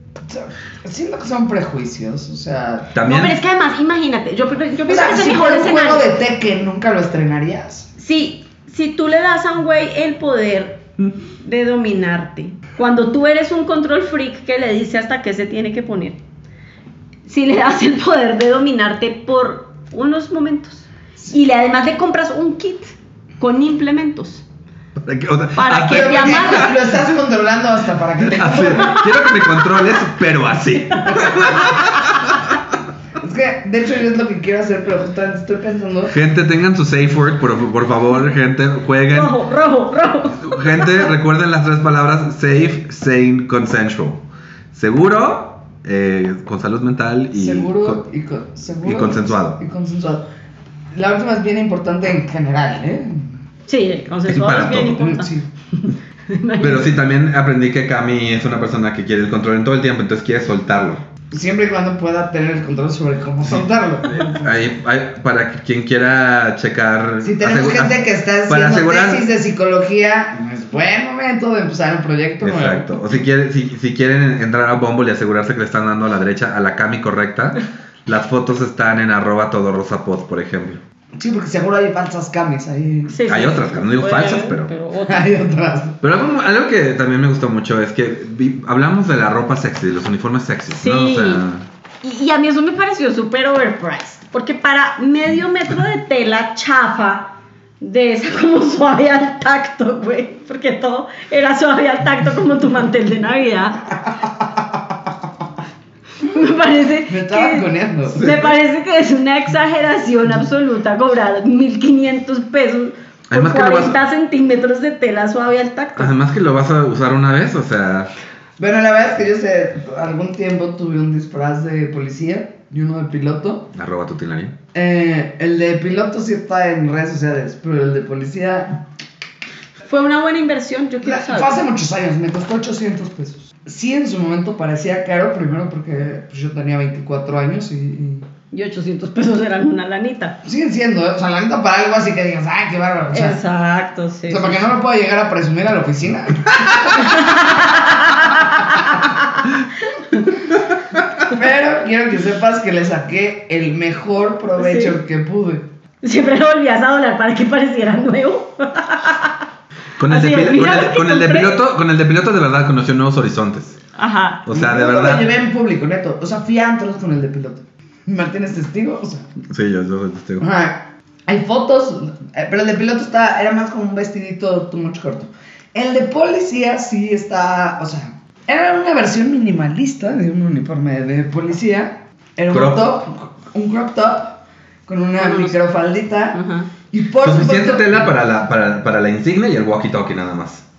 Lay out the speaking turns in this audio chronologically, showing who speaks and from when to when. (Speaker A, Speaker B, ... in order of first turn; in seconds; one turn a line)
Speaker A: 0.3-3.0
Speaker B: 2.9-3.4
Speaker C: 3.0-6.1
Speaker A: 4.9-7.9
Speaker C: 8.0-10.8
Speaker C: 11.4-16.2
Speaker C: 17.3-24.4
Speaker B: 25.0-27.0
Speaker C: 25.6-26.8
Speaker A: 25.8-29.1
Speaker B: 28.2-32.5
Speaker C: 28.7-29.8
Speaker C: 30.9-31.9
Speaker A: 31.1-31.6
Speaker A: 33.2-36.2
Speaker B: 36.1-39.4
Speaker C: 39.1-41.1
Speaker B: 40.4-48.0
Speaker A: 47.3-50.3
Speaker B: 48.8-49.6
Speaker A: 50.9-53.3
Speaker C: 53.7-56.9
Speaker B: 54.3-55.0
Speaker A: 54.7-55.5
Speaker B: 56.6-61.1
Speaker A: 61.3-64.6
Speaker B: 63.4-69.3
Speaker A: 67.2-73.2
Speaker B: 72.4-80.8
Speaker A: 81.2-83.2
Speaker C: 83.1-85.3
Speaker B: 83.3-84.7
Speaker A: 85.0-86.0
Speaker B: 86.0-91.7
Speaker C: 90.7-91.4
Speaker C: 92.0-103.8
Speaker C: 106.2-116.2
Speaker A: 107.1-108.4
Speaker B: 108.2-108.5
Speaker B: 113.3-114.0
Speaker B: 116.0-118.1
Speaker A: 118.6-123.7
Speaker B: 123.7-124.6
Speaker A: 124.7-128.8
Speaker C: 129.9-131.6
Speaker A: 131.0-138.2
Speaker C: 138.5-140.4
Speaker A: 140.4-143.4
Speaker C: 143.1-144.7
Speaker A: 144.3-148.9
Speaker C: 146.9-150.3
Speaker A: 151.2-155.7
Speaker C: 154.6-155.0
Speaker C: 156.0-159.4
Speaker B: 160.0-163.8
Speaker C: 160.1-161.6
Speaker C: 164.0-164.5
Speaker B: 164.5-165.3
Speaker A: 164.5-169.3
Speaker B: 169.5-170.5
Speaker A: 170.4-188.1
Speaker B: 182.5-183.0
Speaker C: 185.2-185.6
Speaker C: 186.3-186.7
Speaker B: 187.2-190.6